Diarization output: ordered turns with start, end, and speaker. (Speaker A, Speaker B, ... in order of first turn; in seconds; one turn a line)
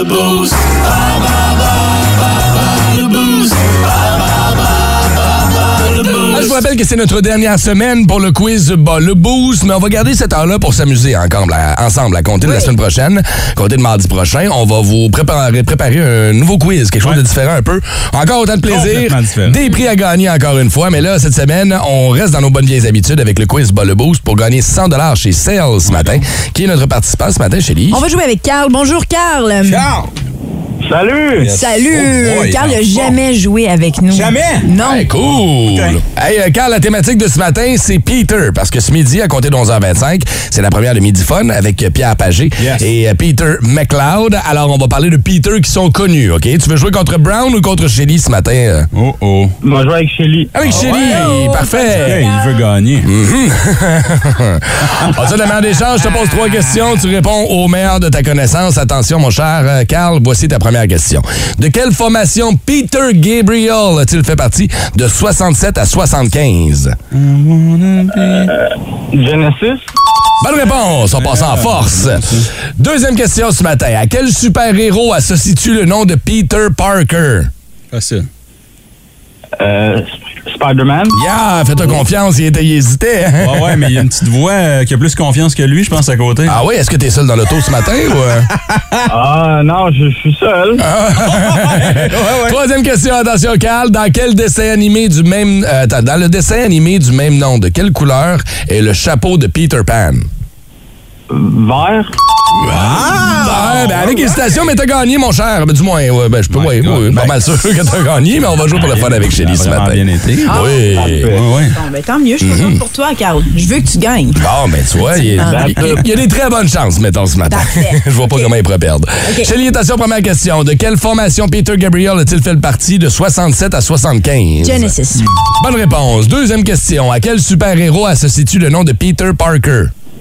Speaker A: 6.3-28.0
Speaker B: 12.4-12.7
Speaker C: 18.6-19.6
Speaker C: 25.9-26.2
Speaker B: 27.9-29.9
Speaker C: 29.6-30.1
Speaker D: 30.8-31.5
Speaker C: 31.4-33.2
Speaker B: 31.5-35.1
Speaker C: 34.1-34.7
Speaker A: 34.8-48.9
Speaker C: 35.6-36.0
Speaker C: 42.6-42.9
Speaker C: 48.9-49.5
Speaker D: 49.6-50.5
Speaker A: 50.5-52.3
Speaker C: 50.6-51.4
Speaker B: 50.7-52.6
Speaker C: 51.9-53.1
Speaker A: 53.0-67.0
Speaker C: 67.1-68.5
Speaker D: 68.5-69.8
Speaker A: 70.4-77.5
Speaker C: 71.1-72.5
Speaker C: 77.9-78.3
Speaker D: 79.6-81.2
Speaker A: 81.1-84.0
Speaker C: 83.4-86.6
Speaker A: 86.5-88.5
Speaker C: 88.7-89.0
Speaker D: 89.1-90.8
Speaker A: 90.8-100.3
Speaker C: 91.2-92.6
Speaker D: 101.3-102.1
Speaker A: 102.5-111.3
Speaker C: 102.7-104.3
Speaker C: 106.5-107.4
Speaker C: 108.8-110.6
Speaker B: 110.5-114.4
Speaker D: 110.9-111.4
Speaker C: 111.3-111.8
Speaker A: 112.4-112.8
Speaker A: 114.4-125.0
Speaker B: 115.1-115.8
Speaker D: 115.4-116.0
Speaker B: 117.5-118.5
Speaker B: 119.2-119.5
Speaker B: 124.6-125.3
Speaker A: 125.5-129.9